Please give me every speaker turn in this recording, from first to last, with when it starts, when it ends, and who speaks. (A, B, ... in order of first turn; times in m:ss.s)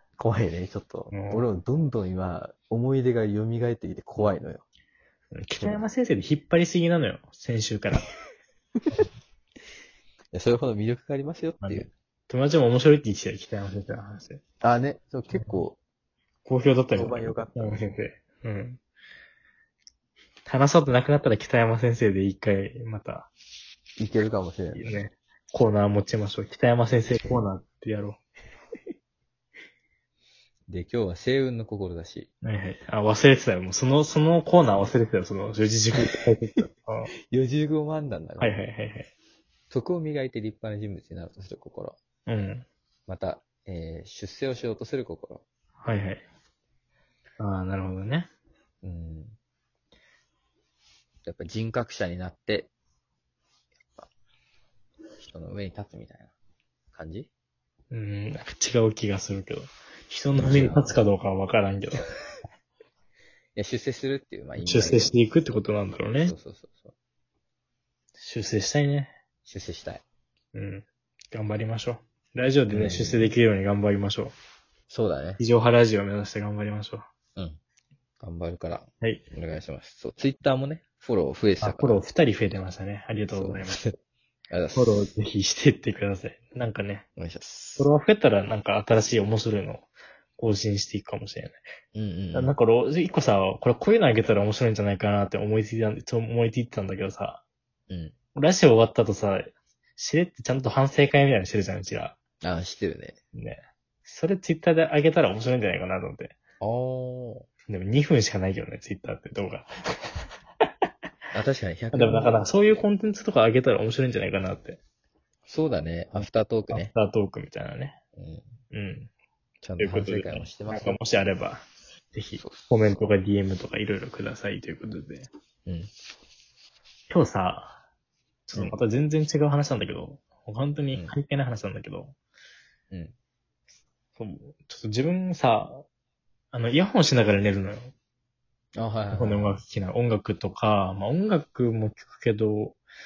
0:00.2-0:04.6 A
0:01.1-0:01.4 B
0:05.3-0:08.1 B
0:05.6-0:05.8 A
0:10.3-0:11.9 A
0:11.6-0:14.4 B
0:14.6-0:15.8 A
0:15.3-0:15.6 B
0:16.4-0:18.8 B
0:16.9-0:17.8 A
0:20.4-0:23.3 B
0:24.0-0:25.0 A
0:24.7-0:28.2 B
0:30.7-0:32.3 A
0:32.4-0:37.1 B
0:36.0-0:36.2 A
0:37.3-0:38.6 A
0:38.4-0:39.1 B
0:39.7-0:42.0 A
0:42.3-0:42.7 B
0:43.1-0:45.4 A
0:45.8-0:46.2 B
0:47.4-0:48.3 B
0:48.8-0:49.4 A
0:51.2-0:52.7 A
0:53.8-0:54.1 A
0:55.2-0:56.3 A
0:56.9-0:57.3 A
0:57.9-1:02.1 B
1:00.3-1:01.0 A
1:03.6-1:05.1 A
1:04.6-1:06.3 B
1:06.2-1:06.9 A
1:08.2-1:09.1 B
1:09.4-1:10.0 A
1:10.5-1:14.3 B
1:12.7-1:13.3 A
1:14.9-1:15.4 A
1:15.4-1:17.0 B
1:18.2-1:22.0 A
1:21.6-1:23.8 B
1:23.3-1:23.9 A
1:24.5-1:25.0 A
1:24.8-1:27.1 B
1:27.2-1:27.9 A
1:27.8-1:31.6 B
1:31.9-1:32.5 A
1:32.3-1:37.4 B
1:37.9-1:38.1 A
1:38.3-1:42.2 B
1:42.4-1:43.2 A
1:43.3-1:46.4 B
1:46.6-1:47.5 A
1:47.7-1:50.2 B
1:51.3-1:52.3 A
1:51.9-1:54.8 B
1:55.5-1:56.9 A
1:56.1-1:58.0 B
1:58.2-1:58.5 A
1:58.7-1:59.1 B
1:59.6-2:01.0 A
1:59.8-2:05.3 B
2:02.4-2:03.0 A
2:05.7-2:05.9 A
2:07.1-2:07.8 B
2:08.5-2:12.2 B
2:14.2-2:15.8 B
2:16.5-2:17.9 B
2:18.8-2:19.6 A
2:19.1-2:22.8 B